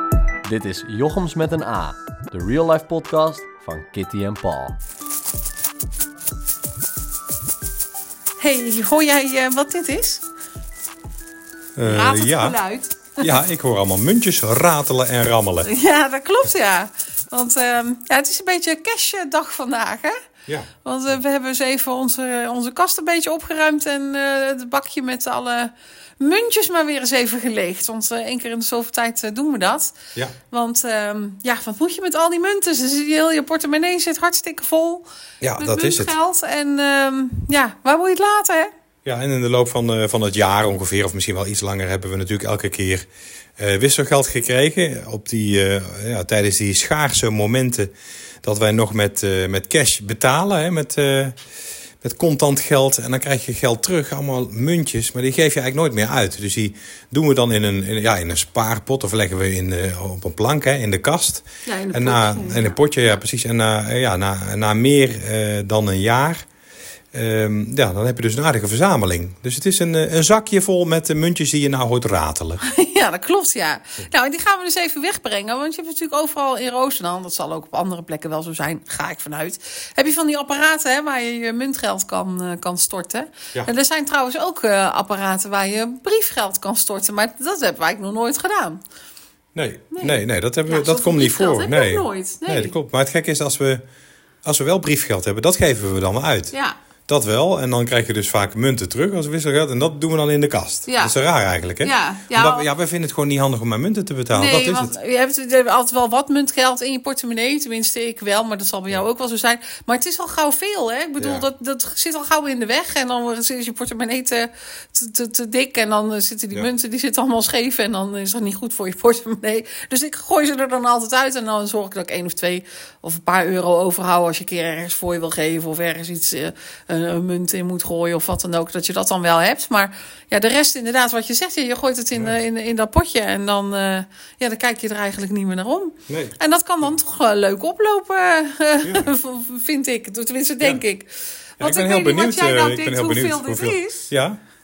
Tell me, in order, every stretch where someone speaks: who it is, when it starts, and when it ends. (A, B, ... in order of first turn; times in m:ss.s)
0:00.4-0:04.8 A
0:08.4-0:10.2 B
0:11.8-0:12.6 C
0:11.8-0:13.3 B
0:13.2-0:15.7 C
0:15.6-0:20.2 B
0:20.8-0:29.9 B
0:30.5-0:35.0 B
0:35.4-0:36.1 C
0:35.6-0:38.7 B
0:39.0-0:43.1 C
0:43.6-0:47.9 C
0:48.4-0:51.4 C
0:52.0-1:06.4 C
1:01.6-1:02.8 B
1:07.1-1:12.6 C
1:12.6-1:28.8 B
1:29.5-1:33.8 C
1:29.9-1:32.7 B
1:34.4-1:36.5 C
1:37.1-1:45.0 C
1:40.9-1:41.1 B
1:41.8-1:42.7 B
1:44.3-2:24.1 B
1:51.2-1:51.5 C
2:16.1-2:16.3 C
2:18.8-2:19.1 C
2:21.6-2:24.4 C